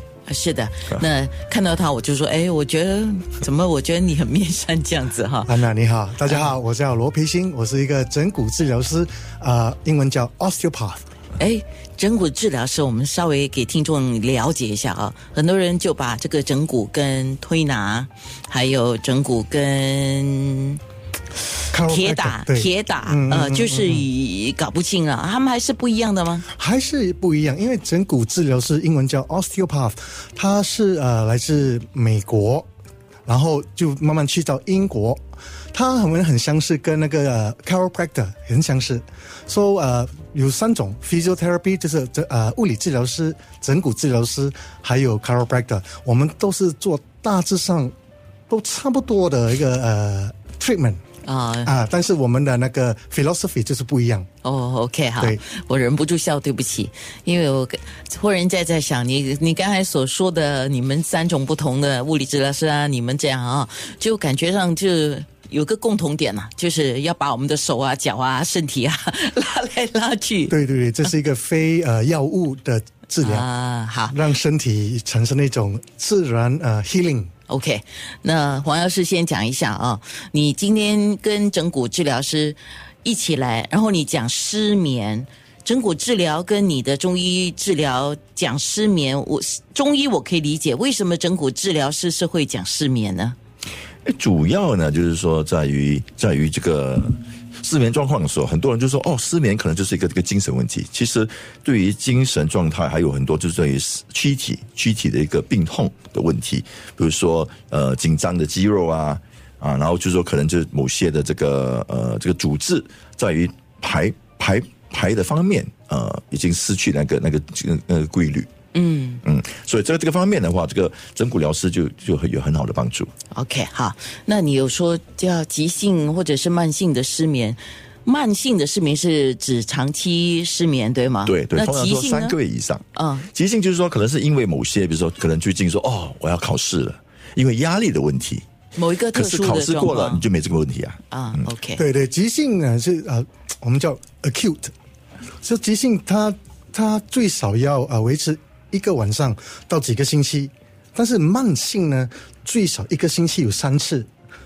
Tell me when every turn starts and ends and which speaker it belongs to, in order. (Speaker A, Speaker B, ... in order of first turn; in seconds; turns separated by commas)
Speaker A: 0.3-5.6, Speaker B: 5.5-11.0, Speaker A: 6.2-6.5, Speaker A: 11.4-20.8, Speaker B: 21.7-24.1, Speaker A: 21.7-26.5, Speaker B: 26.5-32.7, Speaker B: 33.2-35.2, Speaker B: 35.7-47.9, Speaker B: 48.5-51.0, Speaker A: 51.2-51.7, Speaker B: 51.6-54.3, Speaker A: 54.4-71.1, Speaker B: 70.5-73.5, Speaker A: 73.2-74.2, Speaker B: 74.1-77.3, Speaker A: 77.5-93.3, Speaker C: 94.0-118.5, Speaker A: 118.7-119.2, Speaker C: 119.2-123.1, Speaker A: 123.3-132.4, Speaker C: 131.3-138.4, Speaker A: 132.9-133.3, Speaker A: 138.8-140.2, Speaker C: 139.1-141.4, Speaker A: 141.1-141.8, Speaker B: 141.8-144.7, Speaker B: 145.4-154.1